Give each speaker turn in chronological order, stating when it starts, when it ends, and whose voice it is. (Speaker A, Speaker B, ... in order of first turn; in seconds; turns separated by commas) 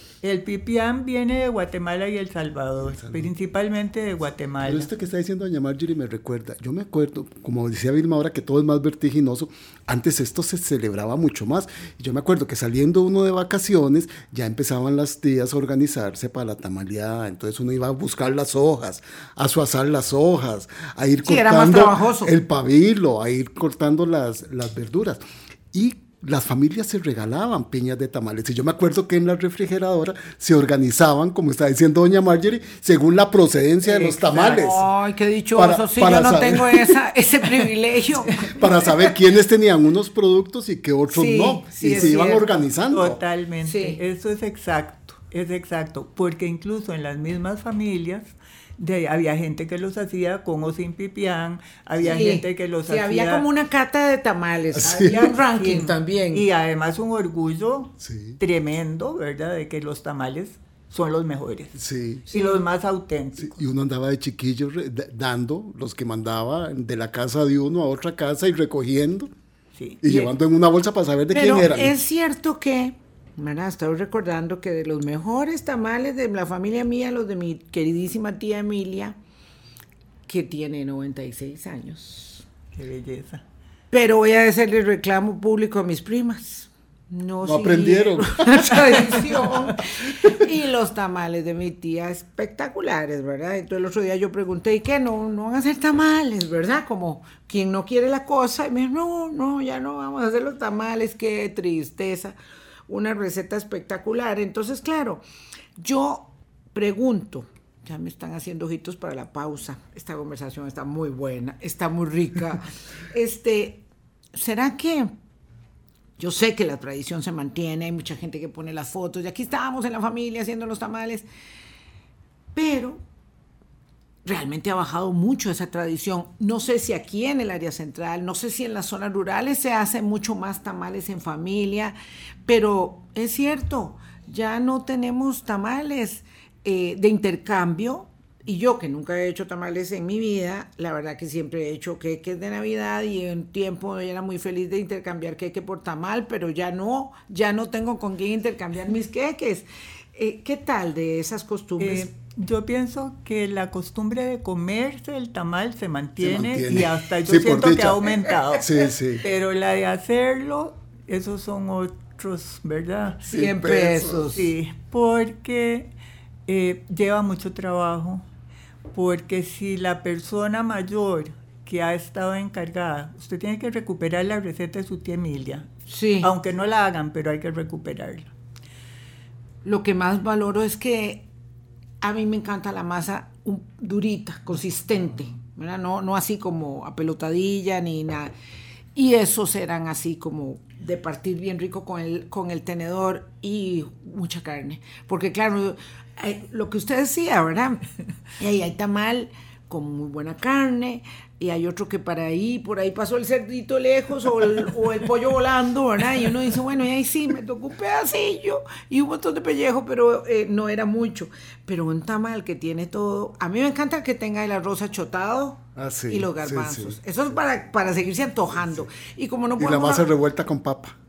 Speaker A: 0.2-4.9, Speaker B: 2.8-3.3, Speaker B: 4.6-25.2, Speaker C: 21.3-22.3, Speaker B: 25.7-34.8, Speaker A: 34.0-34.8, Speaker C: 34.0-39.1, Speaker B: 35.5-37.0, Speaker B: 38.4-43.2, Speaker C: 41.1-42.5, Speaker A: 42.9-53.5, Speaker C: 43.6-44.0, Speaker C: 52.0-56.5, Speaker B: 54.8-55.2, Speaker A: 54.8-63.6, Speaker B: 58.0-58.4, Speaker B: 61.8-62.3, Speaker C: 62.3-62.6, Speaker B: 63.4-69.3, Speaker A: 69.8-70.2, Speaker B: 70.0-72.0, Speaker C: 71.3-79.2, Speaker C: 80.3-82.4, Speaker A: 82.7-83.4, Speaker C: 83.9-102.4, Speaker B: 87.4-89.2, Speaker C: 102.9-105.2, Speaker C: 105.8-115.1, Speaker C: 116.2-121.3, Speaker C: 122.5-123.0, Speaker C: 124.2-152.1, Speaker A: 151.8-158.7, Speaker B: 156.2-158.1, Speaker B: 158.6-159.2, Speaker A: 159.2-163.2, Speaker C: 163.2-164.5, Speaker B: 163.3-164.2, Speaker A: 164.3-165.9, Speaker A: 166.5-168.2, Speaker A: 168.9-175.7, Speaker C: 175.9-176.3, Speaker A: 176.2-178.3, Speaker C: 179.7-181.2, Speaker C: 182.0-188.3, Speaker C: 188.9-220.1, Speaker B: 215.8-217.0, Speaker B: 218.6-218.9, Speaker B: 219.6-221.0